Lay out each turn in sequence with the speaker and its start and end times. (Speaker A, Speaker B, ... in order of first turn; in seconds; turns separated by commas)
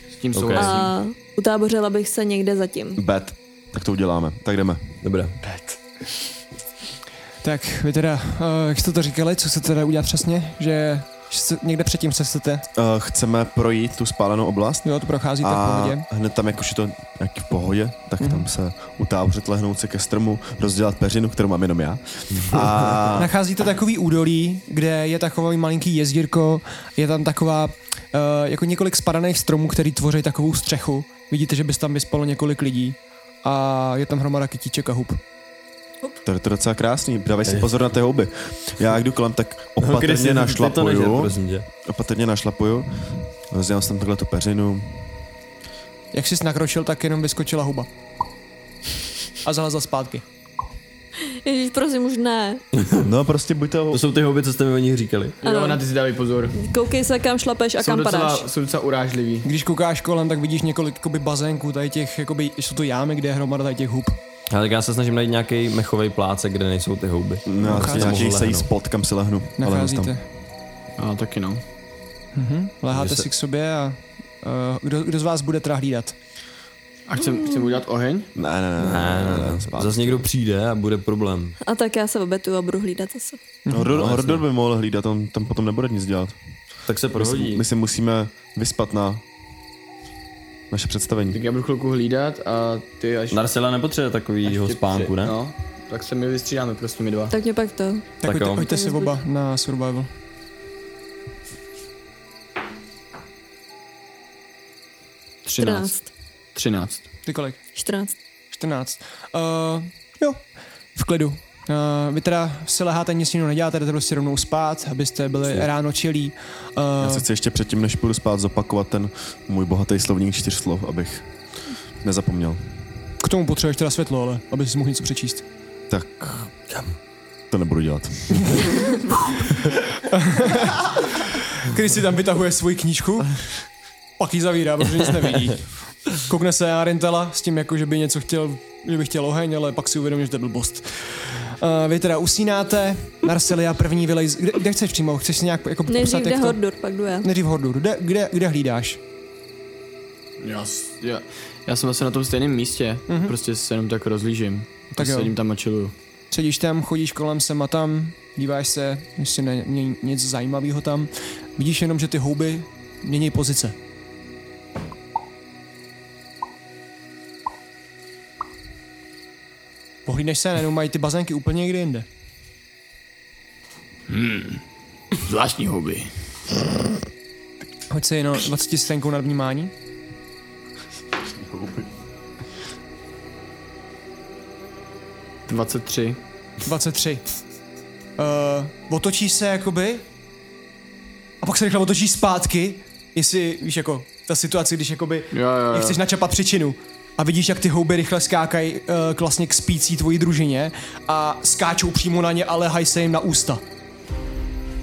Speaker A: 0.1-0.9, Speaker B: 0.3-0.9, Speaker C: 0.5-3.0, Speaker D: 3.0-4.9, Speaker B: 5.0-5.4, Speaker A: 5.5-5.8, Speaker E: 7.4-12.7, Speaker D: 12.7-23.3, Speaker E: 14.8-16.1, Speaker E: 18.2-18.5, Speaker E: 23.1-35.2, Speaker D: 36.2-43.0, Speaker B: 39.8-41.6, Speaker D: 43.5-45.1, Speaker E: 46.1-47.9, Speaker E: 49.4-50.2, Speaker C: 51.2-52.6, Speaker D: 53.0-54.0, Speaker B: 53.9-55.4, Speaker C: 55.4-55.8, Speaker A: 55.4-56.7, Speaker C: 56.5-58.5, Speaker A: 57.8-59.5, Speaker E: 59.4-64.2, Speaker B: 64.5-68.7, Speaker D: 67.5-70.1, Speaker E: 67.6-68.1, Speaker E: 69.6-70.2, Speaker A: 71.0-71.6, Speaker E: 72.3-76.2, Speaker B: 72.9-73.2, Speaker A: 77.1-78.3, Speaker D: 78.3-80.2, Speaker B: 78.8-81.5, Speaker C: 81.6-83.4, Speaker E: 83.7-83.9, Speaker D: 83.7-86.4, Speaker B: 83.9-84.4, Speaker B: 86.9-87.6, Speaker D: 87.1-89.2, Speaker D: 90.7-91.4, Speaker A: 91.3-93.4, Speaker B: 93.3-95.3, Speaker A: 94.4-97.3, Speaker C: 97.3-99.2, Speaker B: 98.2-98.7, Speaker E: 98.2-100.1, Speaker A: 105.5-105.9, Speaker C: 105.6-106.1, Speaker A: 106.5-107.1, Speaker E: 107.2-107.6, Speaker C: 107.7-108.1, Speaker E: 108.5-110.4, Speaker E: 110.9-117.2, Speaker D: 117.0-121.3, Speaker D: 122.0-122.6, Speaker E: 123.2-125.4, Speaker D: 125.9-126.5, Speaker D: 127.5-129.0, Speaker E: 130.0-133.3, Speaker E: 134.2-146.6, Speaker C: 145.9-147.3, Speaker E: 147.2-149.0, Speaker A: 150.4-155.9, Speaker E: 153.1-153.3, Speaker E: 154.9-155.3, Speaker E: 156.3-163.8, Speaker E: 170.1-172.1, Speaker A: 174.1-174.6, Speaker A: 175.2-176.1, Speaker E: 177.9-179.7, Speaker D: 181.3-181.9, Speaker A: 185.5-186.2, Speaker E: 186.6-187.2, Speaker E: 188.2-190.1, Speaker E: 191.4-203.6, Speaker A: 195.3-196.0